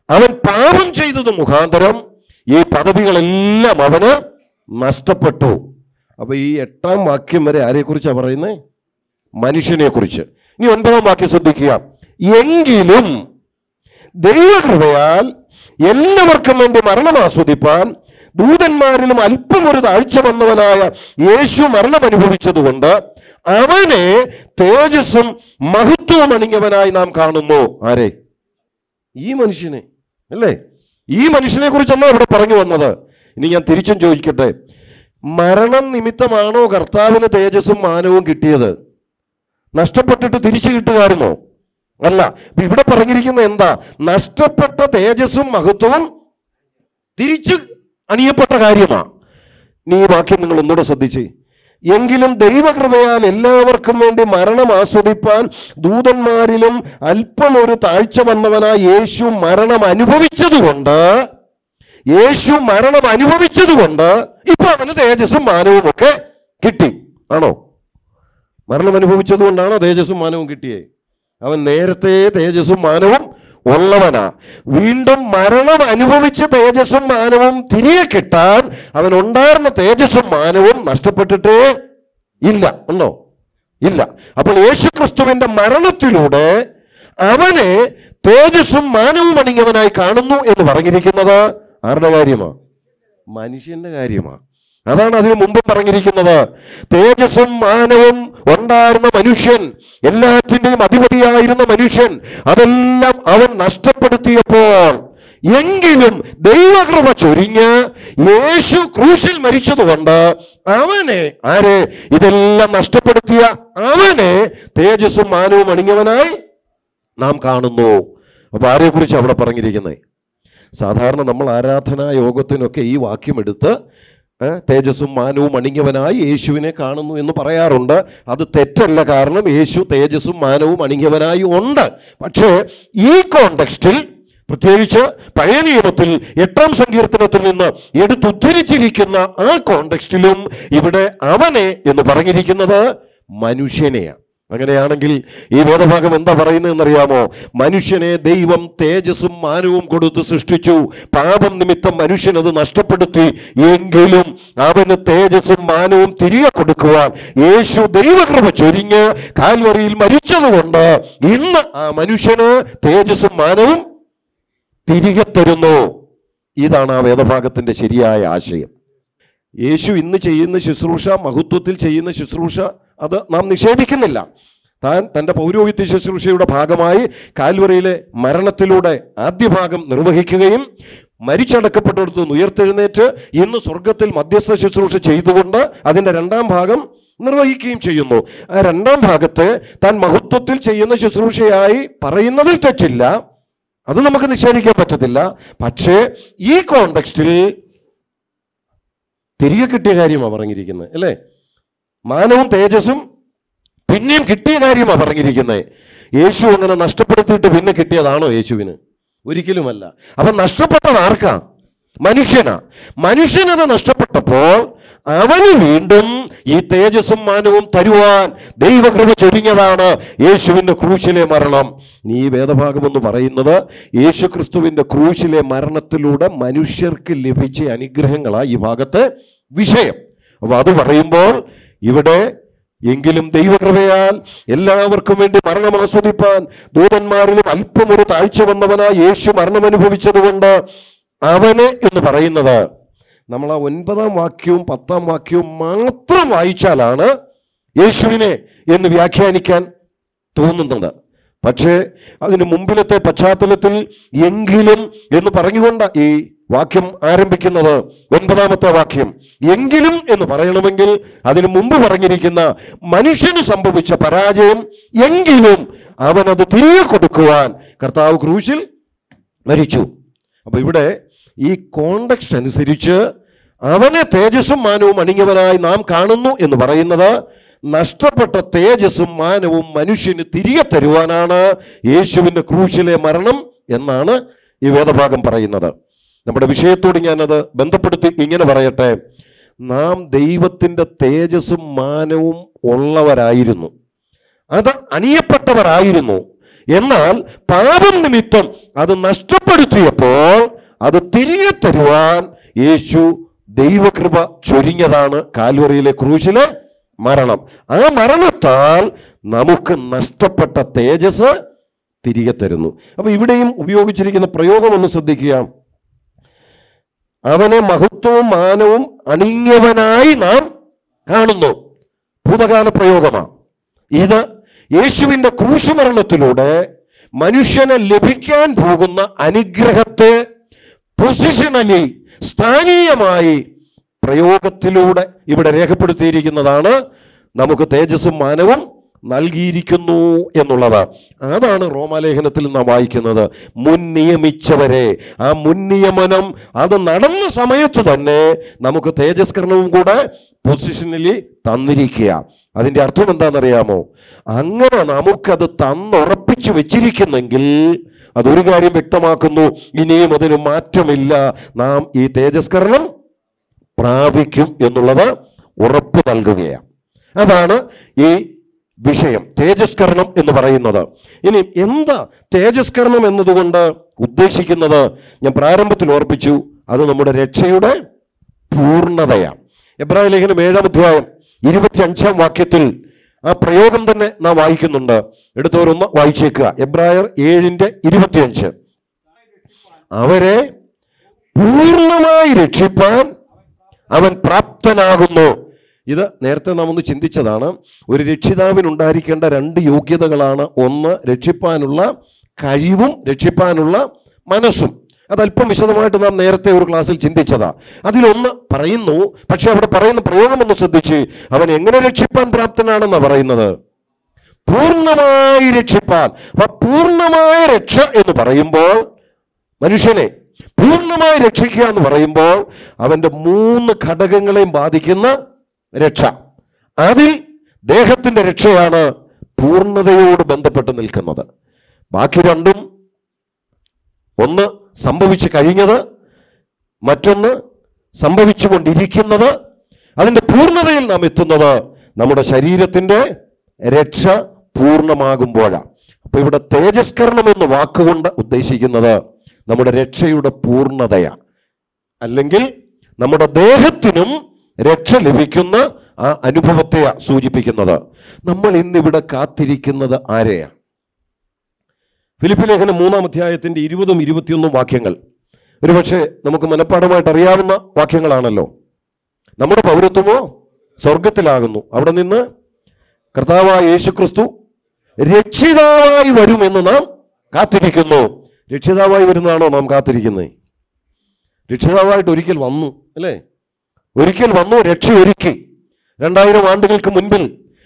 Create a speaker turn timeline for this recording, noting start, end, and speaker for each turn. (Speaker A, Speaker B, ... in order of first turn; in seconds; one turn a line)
Speaker A: 0.1-2.0
Speaker A: 2.5-4.2
Speaker A: 4.8-5.6
Speaker A: 6.2-8.6
Speaker A: 9.4-13.1
Speaker A: 14.2-15.3
Speaker A: 15.9-22.9
Speaker A: 23.5-28.1
Speaker A: 29.2-30.6
Speaker A: 31.1-34.5
Speaker A: 35.4-38.7
Speaker A: 39.8-41.4
Speaker A: 42.0-46.0
Speaker A: 47.2-49.1
Speaker A: 49.9-51.3
Speaker A: 51.9-61.2
Speaker A: 62.1-67.5
Speaker A: 68.7-70.9
Speaker A: 71.4-81.7
Speaker A: 82.4-83.1
Speaker A: 83.8-86.6
Speaker A: 87.3-92.5
Speaker A: 93.3-116.4
Speaker A: 117.2-118.0
Speaker A: 118.5-120.0
Speaker A: 120.8-123.8
Speaker A: 124.4-163.8
Speaker A: 164.9-165.9
Speaker A: 166.6-168.7
Speaker A: 169.7-174.2
Speaker A: 174.8-180.6
Speaker A: 181.3-193.1
Speaker A: 193.9-197.4
Speaker A: 199.4-201.1
Speaker A: 202.1-203.0
Speaker A: 203.9-205.6
Speaker A: 206.2-208.8
Speaker A: 209.3-211.4
Speaker A: 212.0-232.3
Speaker A: 232.9-240.6
Speaker A: 241.3-242.7
Speaker A: 243.3-247.1
Speaker A: 247.8-249.7
Speaker A: 250.4-250.9
Speaker A: 251.4-268.6
Speaker A: 269.5-269.9
Speaker A: 270.4-270.9
Speaker A: 271.4-273.0
Speaker A: 273.7-277.1
Speaker A: 277.7-285.7
Speaker A: 286.3-288.9
Speaker A: 289.7-293.7
Speaker A: 294.5-296.2
Speaker A: 296.8-306.5
Speaker A: 307.1-311.3
Speaker A: 312.0-315.5
Speaker A: 317.3-320.5
Speaker A: 321.1-321.6
Speaker A: 322.3-323.3
Speaker A: 324.0-324.2
Speaker A: 324.8-326.5
Speaker A: 327.2-330.1
Speaker A: 331.0-333.4
Speaker A: 334.0-336.8
Speaker A: 337.4-353.8
Speaker A: 354.3-362.9
Speaker A: 363.8-366.6
Speaker A: 367.2-368.3
Speaker A: 368.9-377.8
Speaker A: 378.5-382.7
Speaker A: 383.3-388.5
Speaker A: 389.9-390.5
Speaker A: 391.4-393.1
Speaker A: 393.9-395.4
Speaker A: 395.9-401.9
Speaker A: 402.4-413.5
Speaker A: 414.5-418.8
Speaker A: 419.6-425.1
Speaker A: 425.8-426.1
Speaker A: 426.8-427.1
Speaker A: 427.7-428.9
Speaker A: 429.4-431.3
Speaker A: 431.9-432.6
Speaker A: 434.2-435.8
Speaker A: 436.9-437.4
Speaker A: 438.0-439.3
Speaker A: 440.0-443.0
Speaker A: 443.7-451.1
Speaker A: 452.0-452.4
Speaker A: 453.0-454.1
Speaker A: 454.6-460.5
Speaker A: 462.2-464.9
Speaker A: 465.6-468.5
Speaker A: 469.4-470.3
Speaker A: 470.8-472.2
Speaker A: 473.1-474.3
Speaker A: 475.0-480.3
Speaker A: 481.5-483.2
Speaker A: 484.0-485.4
Speaker A: 486.0-487.3